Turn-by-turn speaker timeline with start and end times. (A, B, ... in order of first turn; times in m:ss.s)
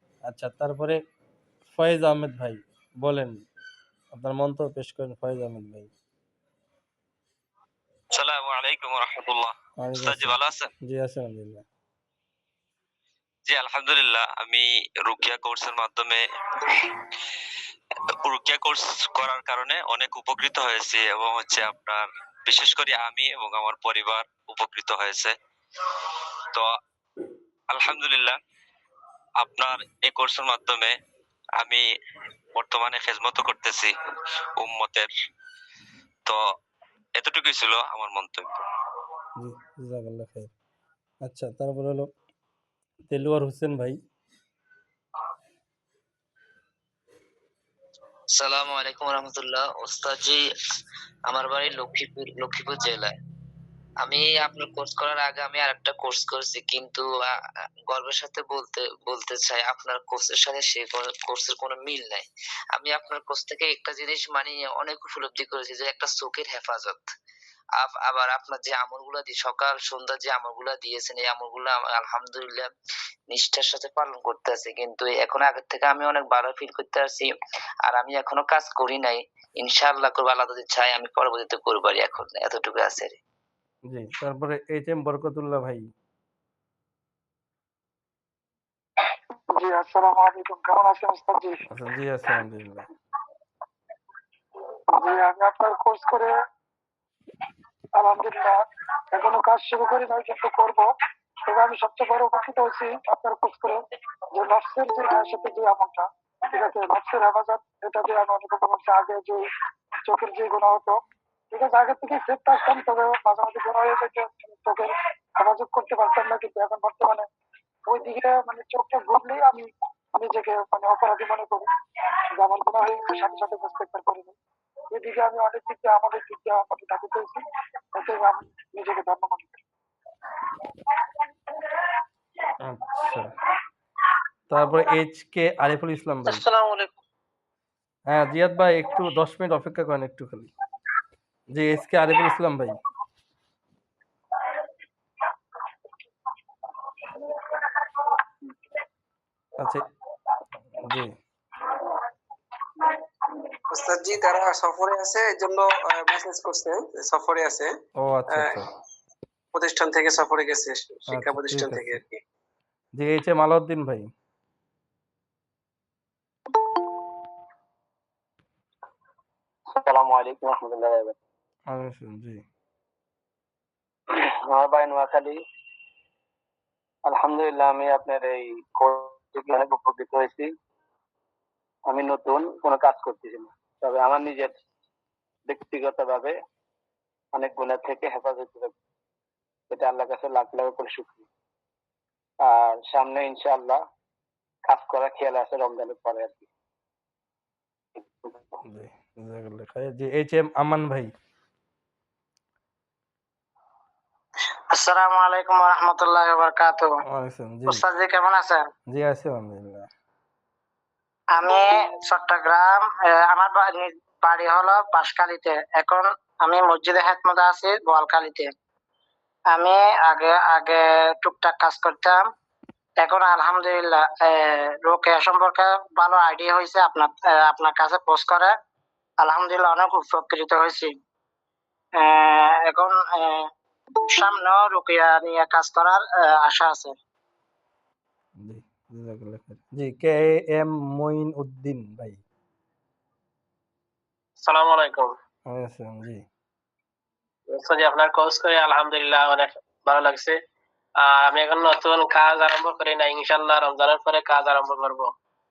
0:00.3-0:01.0 A
0:01.7-0:03.3 A
0:04.1-0:05.9 A
0:08.1-0:10.7 B
0:09.8-0:11.6 A
0:13.4-0:16.8 B
0:18.2-0:25.3 B
0:27.7-0:28.4 B
0:29.4-0:30.9 B
0:32.5-0:33.9 B
0:34.6-0:35.1 B
0:37.2-0:38.6 B
0:39.4-0:40.5 A
0:41.2-0:42.1 A
0:43.1-0:44.0 A
0:48.4-0:50.4 C
0:51.3-0:53.1 C
0:54.0-0:57.3 C
0:57.9-1:07.0 C
1:07.8-1:12.7 C
1:13.3-1:17.3 C
1:17.8-1:23.2 C
1:23.9-1:25.9 A
1:29.5-1:31.6 D
1:31.7-1:32.9 A
1:34.9-1:36.3 D
1:38.0-1:40.8 D
1:41.5-1:43.8 D
1:44.3-1:49.4 D
1:50.0-1:51.0 D
1:51.5-1:57.3 D
1:57.9-2:01.7 D
2:02.3-2:04.3 D
2:04.9-2:07.4 D
2:07.9-2:09.6 D
2:12.6-2:13.3 A
2:14.5-2:16.4 A
2:18.1-2:20.5 A
2:21.5-2:22.8 A
2:30.8-2:31.1 A
2:33.7-2:37.7 E
2:38.0-2:38.7 A
2:39.5-2:42.2 E
2:41.1-2:42.0 A
2:43.0-2:44.1 A
2:49.8-2:51.1 F
2:51.7-2:52.4 A
2:54.1-2:55.4 F
2:57.1-3:00.5 F
3:01.9-3:04.5 F
3:05.5-3:06.3 F
3:07.3-3:08.7 F
3:09.7-3:11.2 F
3:12.4-3:13.8 F
3:14.6-3:16.5 F
3:18.1-3:18.5 F
3:18.6-3:21.1 A
3:24.7-3:26.9 G
3:27.1-3:27.8 A
3:27.7-3:28.6 G
3:28.9-3:29.9 A
3:31.3-3:38.5 G
3:39.5-3:42.2 G
3:43.0-3:48.5 G
3:49.2-3:50.9 G
3:52.0-3:53.5 G
3:54.0-3:56.9 G
3:58.4-4:02.2 A
4:04.4-4:05.1 H
4:05.5-4:06.2 A
4:07.5-4:10.4 H
4:11.0-4:15.1 H